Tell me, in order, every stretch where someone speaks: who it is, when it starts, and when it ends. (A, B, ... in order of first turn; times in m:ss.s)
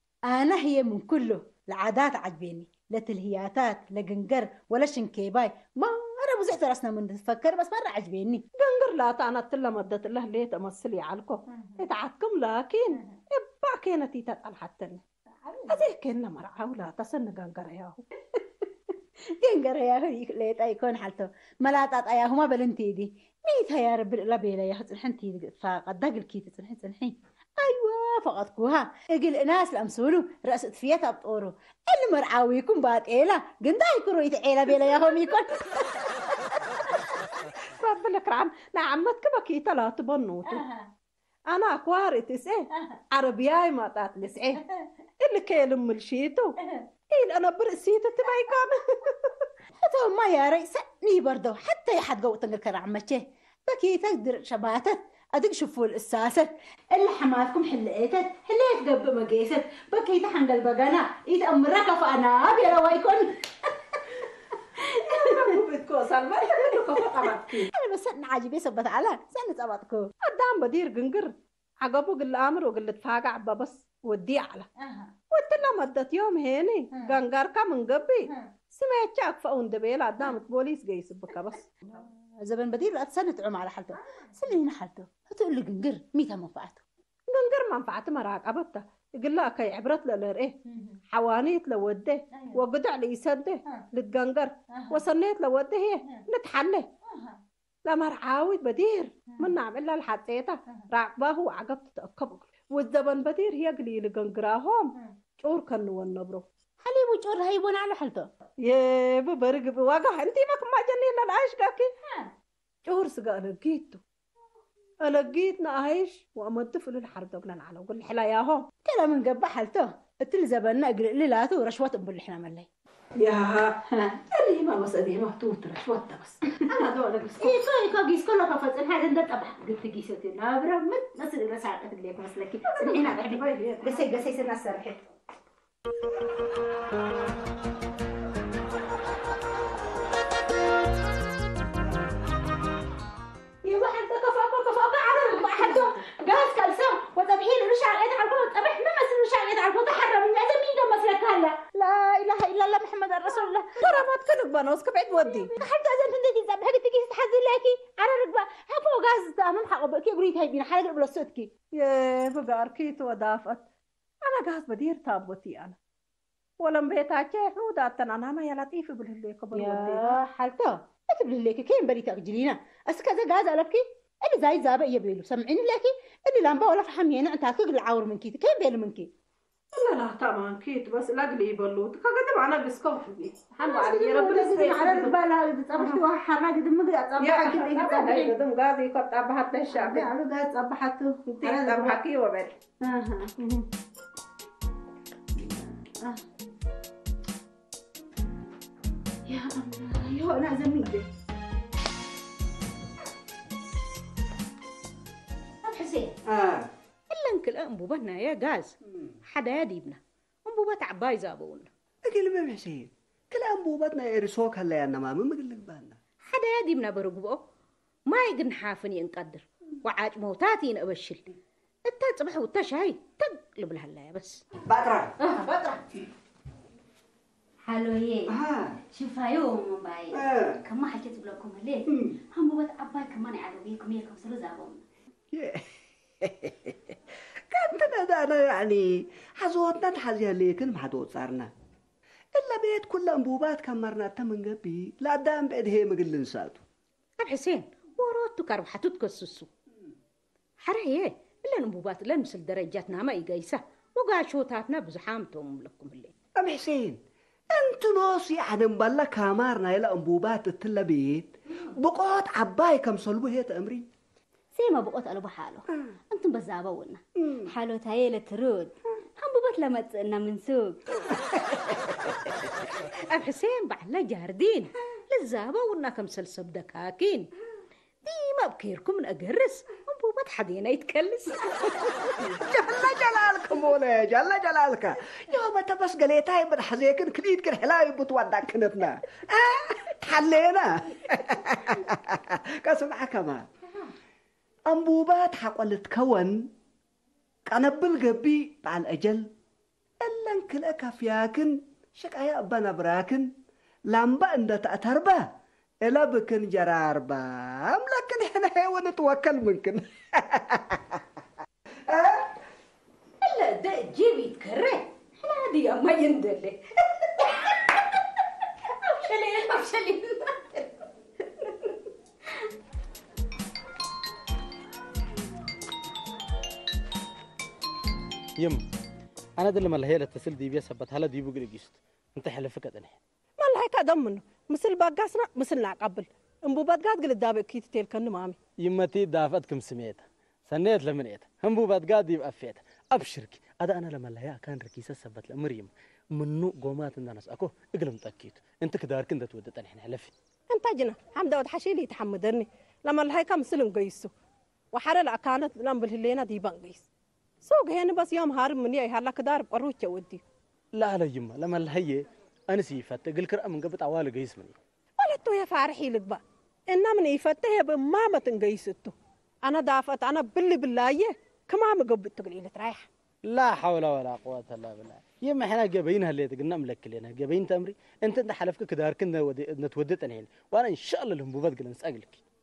0:00.3-0:08.4 A
0:08.6-0:15.0 B
0:11.5-0:11.8 A
0:15.4-0:15.8 A
0:15.7-0:18.0 B
0:19.4-0:35.8 A
0:37.7-0:40.6 B
0:40.5-0:40.9 A
0:41.5-0:44.6 B
0:45.2-0:46.6 B
0:47.1-0:49.4 B
0:49.8-1:03.7 A
1:04.9-1:05.5 A
1:05.0-1:07.7 B
1:06.6-1:10.1 A
1:10.2-1:11.3 B
1:11.8-1:14.7 B
1:14.8-1:15.1 A
1:15.3-1:22.0 B
1:21.9-1:26.8 A
1:27.3-1:30.5 B
1:30.7-1:31.0 A
1:31.1-1:36.9 B
1:32.3-1:32.6 A
1:34.7-1:35.0 A
1:37.1-1:37.4 A
1:37.9-1:46.4 B
1:46.8-1:48.3 A
1:48.6-1:51.9 B
1:52.8-1:54.0 B
1:55.0-1:58.7 B
1:58.8-2:02.7 A
2:03.2-2:03.8 B
2:03.9-2:04.2 A
2:04.3-2:07.6 B
2:07.4-2:15.1 A
2:12.7-2:14.1 B
2:23.7-2:26.0 B
2:25.2-2:34.0 A
2:33.8-2:35.5 B
2:35.2-2:41.5 A
2:41.7-2:43.6 B
2:44.2-2:45.8 B
2:46.6-2:50.2 B
2:49.5-2:59.1 A
2:59.7-3:05.2 B
3:03.6-3:08.3 A
3:05.8-3:06.0 B
3:07.2-3:10.1 B
3:09.7-3:12.0 A
3:11.3-3:12.6 B
3:12.8-3:13.6 A
3:15.4-3:16.2 A
3:19.3-3:21.1 A
3:25.6-3:26.1 A
3:26.3-3:26.7 C
3:27.1-3:28.7 D
3:29.3-3:31.7 D
3:32.0-3:36.0 C
3:36.3-3:37.4 D
3:38.1-3:44.4 D
3:44.6-3:45.2 C
3:47.6-3:48.3 E
3:48.3-3:48.8 C
3:48.9-3:54.8 E
3:50.1-3:50.6 C
3:51.9-3:52.1 C
3:55.3-3:56.8 C
3:57.5-4:01.5 C
4:02.3-4:06.6 C
4:07.2-4:09.5 D
4:10.6-4:16.1 D
4:16.4-4:17.0 C
4:17.5-4:23.9 C
4:24.6-4:30.9 E
4:33.1-4:37.3 D
4:38.0-4:41.4 D
4:42.3-4:53.5 C
4:54.7-4:56.5 C
4:57.5-4:59.3 C
5:00.0-5:03.3 C
5:03.9-5:05.2 C
5:05.8-5:11.0 C
5:11.9-5:12.3 C
5:13.2-5:17.5 D
5:18.8-5:20.7 D
5:29.4-5:33.0 F
5:33.4-5:38.4 B
5:38.6-5:50.1 F
5:50.5-5:54.1 B
5:54.7-5:56.9 B
5:57.4-6:00.2 B
6:00.8-6:04.6 F
6:05.0-6:12.9 B
6:13.2-6:22.2 F